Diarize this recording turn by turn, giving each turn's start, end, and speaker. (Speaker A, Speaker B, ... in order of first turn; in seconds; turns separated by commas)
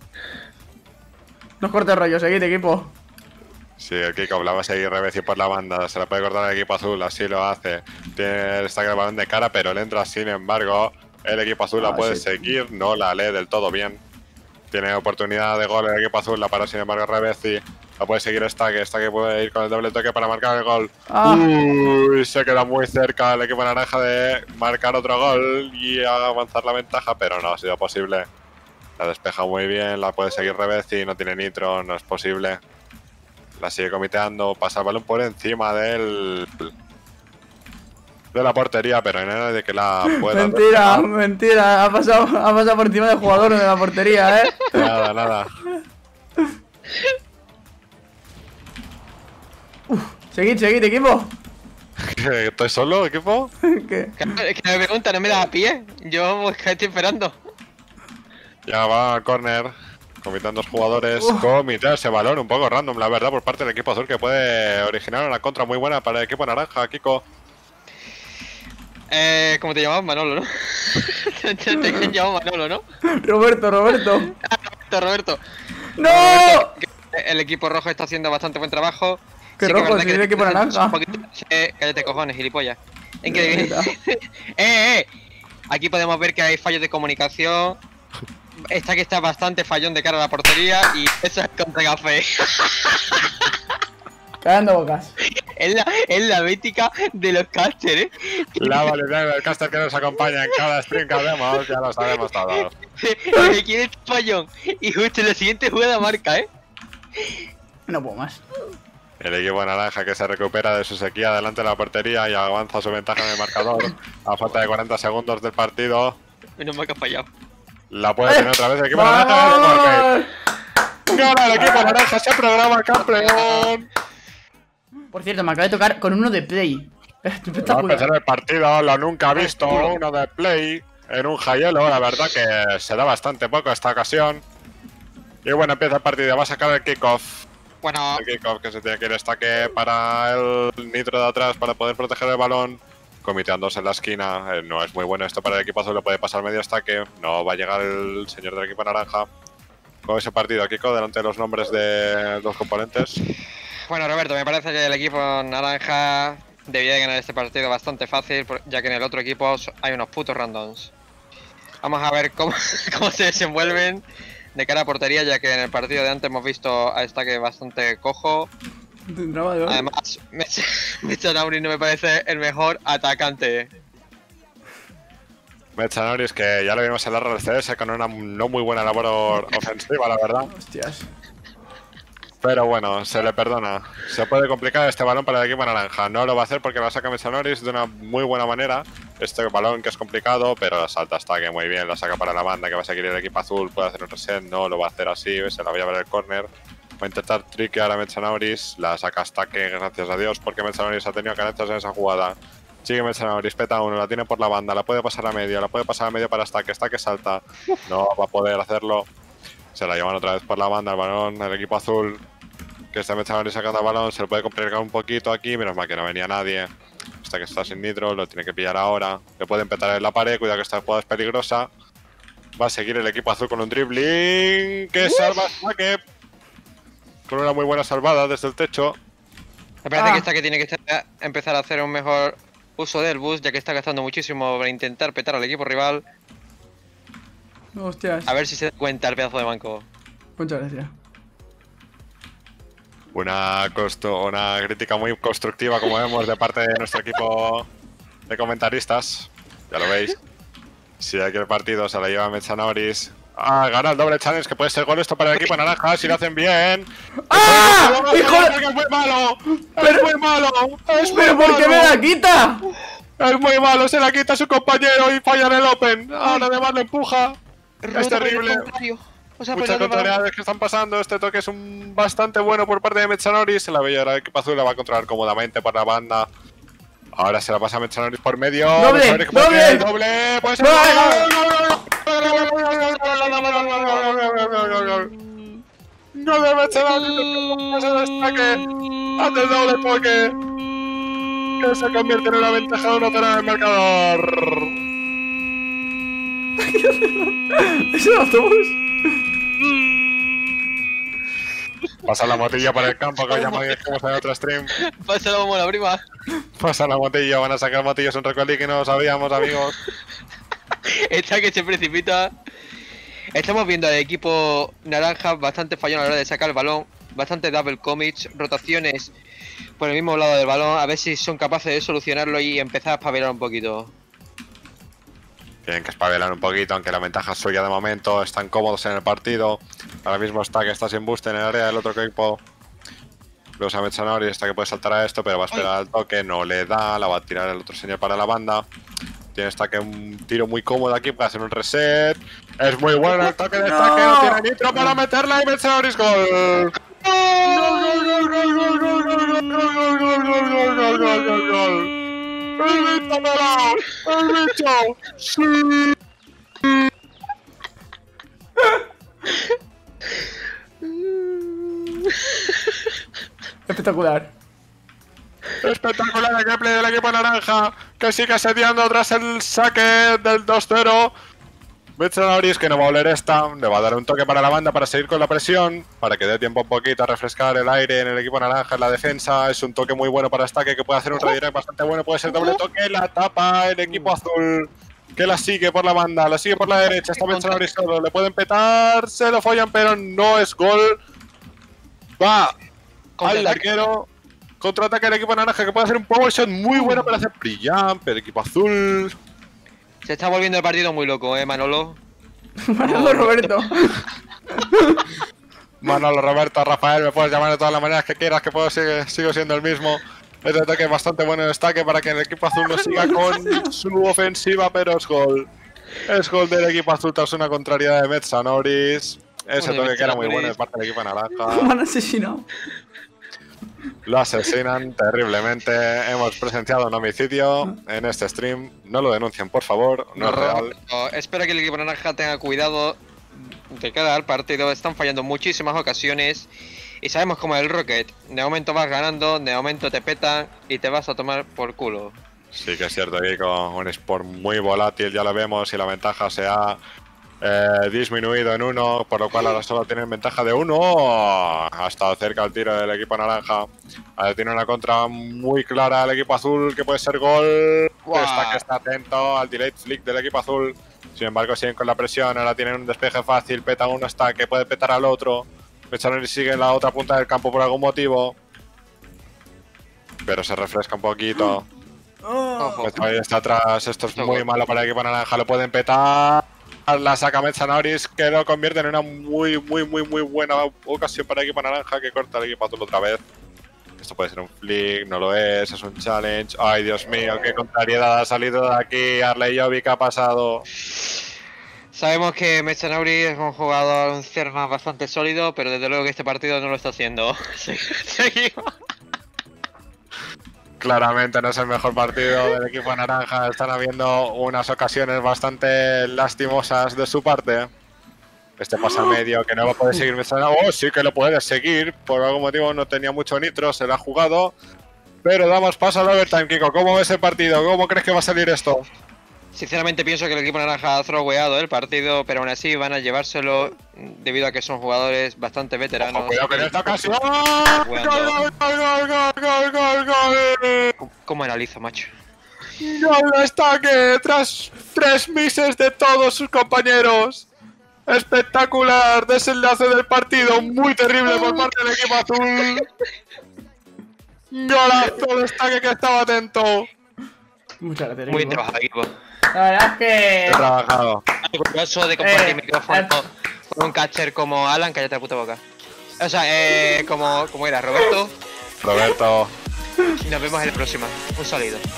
Speaker A: 1.6-3.0, Speaker B: 3.8-14.0, Speaker A: 11.8-12.6, Speaker B: 14.7-28.3, Speaker A: 21.1-21.5, Speaker B: 29.0-32.6, Speaker B: 33.6-36.7, Speaker B: 38.3-41.1, Speaker A: 40.1-44.8, Speaker B: 44.7-45.5, Speaker A: 49.9-51.3, Speaker B: 52.1-53.5, Speaker A: 53.7-54.2, Speaker C: 54.2-57.3, Speaker B: 58.7-67.2, Speaker A: 61.2-61.5, Speaker C: 69.1-72.8, Speaker A: 73.2-74.3, Speaker C: 73.9-75.4, Speaker A: 75.9-76.7, Speaker C: 76.0-85.1, Speaker A: 79.6-81.0, Speaker A: 83.3-83.9, Speaker C: 85.7-87.8, Speaker C: 88.7-93.5, Speaker A: 94.4-95.1, Speaker C: 95.6-98.9, Speaker B: 98.6-102.7, Speaker C: 101.3-101.6, Speaker C: 103.0-106.5, Speaker A: 107.9-108.4, Speaker B: 109.2-116.2, Speaker C: 116.6-117.3, Speaker B: 117.9-120.1, Speaker A: 118.3-120.3, Speaker B: 121.1-123.9, Speaker A: 121.1-121.7, Speaker C: 123.0-123.7, Speaker A: 125.1-128.1, Speaker B: 127.6-134.4, Speaker C: 129.3-130.0, Speaker B: 135.4-137.4, Speaker C: 137.8-138.2, Speaker B: 138.2-149.3, Speaker B: 150.0-153.2, Speaker C: 153.9-160.9, Speaker C: 161.8-164.0, Speaker C: 164.5-168.5, Speaker A: 169.1-169.8, Speaker C: 169.7-173.7, Speaker B: 175.8-180.5, Speaker A: 180.4-181.1, Speaker B: 182.4-196.5, Speaker B: 197.0-209.1, Speaker B: 209.8-212.2, Speaker B: 212.9-216.7, Speaker B: 217.2-221.7, Speaker B: 222.6-226.0, Speaker C: 225.0-225.4, Speaker B: 227.3-229.0, Speaker C: 229.8-236.0, Speaker A: 229.9-230.3, Speaker A: 237.8-238.3, Speaker C: 238.3-239.8, Speaker A: 240.4-240.9, Speaker B: 243.1-247.7, Speaker B: 248.3-250.2, Speaker B: 251.0-262.0, Speaker A: 257.3-258.5, Speaker A: 259.8-260.1, Speaker A: 261.0-262.6, Speaker B: 263.2-267.4, Speaker C: 266.2-266.5, Speaker C: 267.8-270.1, Speaker B: 267.9-268.7, Speaker B: 269.5-276.3, Speaker B: 277.2-285.1, Speaker A: 278.8-279.9, Speaker A: 280.6-281.3, Speaker C: 283.2-285.1, Speaker B: 286.1-288.6, Speaker B: 289.2-290.3, Speaker B: 291.6-294.7, Speaker A: 296.6-298.8, Speaker B: 302.0-304.7, Speaker C: 302.5-303.9, Speaker C: 304.8-306.0, Speaker B: 306.6-309.8, Speaker C: 311.1-312.3, Speaker C: 313.3-319.1, Speaker C: 319.8-323.9, Speaker B: 325.6-332.4, Speaker B: 333.6-338.6, Speaker B: 339.4-346.7, Speaker A: 343.1-344.9, Speaker C: 347.0-347.9, Speaker B: 347.4-351.9, Speaker B: 352.6-355.9, Speaker C: 362.1-362.5, Speaker A: 363.7-364.3, Speaker B: 365.6-371.1, Speaker B: 372.0-390.9, Speaker C: 382.3-382.6, Speaker C: 383.9-384.1, Speaker C: 386.9-387.6, Speaker B: 392.2-392.5, Speaker C: 393.2-393.9, Speaker B: 393.2-394.1, Speaker B: 394.6-399.1, Speaker C: 396.7-397.2, Speaker C: 400.0-402.0, Speaker A: 402.7-404.0, Speaker C: 402.8-403.7, Speaker A: 404.6-405.0, Speaker B: 405.8-415.5, Speaker A: 412.9-413.7, Speaker B: 416.1-421.8, Speaker C: 419.6-420.6, Speaker A: 421.5-422.5, Speaker B: 424.1-430.7, Speaker C: 430.2-436.5, Speaker C: 437.0-442.2, Speaker B: 442.5-446.8, Speaker B: 447.4-453.6, Speaker B: 454.2-468.3, Speaker C: 458.1-458.6, Speaker B: 470.2-471.6, Speaker A: 472.2-472.9, Speaker C: 472.6-473.0, Speaker B: 472.8-483.2, Speaker C: 474.2-474.5, Speaker B: 484.0-490.6, Speaker C: 491.9-498.6, Speaker B: 500.8-507.7, Speaker C: 502.3-502.5, Speaker B: 508.6-514.5, Speaker B: 515.2-518.9, Speaker C: 519.5-527.1, Speaker B: 526.0-530.9, Speaker C: 527.8-528.4, Speaker C: 531.0-532.1, Speaker B: 532.8-537.5, Speaker B: 538.1-542.9, Speaker C: 541.3-542.2, Speaker B: 544.5-546.9, Speaker A: 547.8-548.6, Speaker C: 548.3-549.1, Speaker A: 549.5-550.7, Speaker B: 550.5-551.2, Speaker C: 551.5-555.6, Speaker A: 552.2-553.1, Speaker C: 556.2-558.3, Speaker B: 558.8-559.5, Speaker C: 560.2-561.8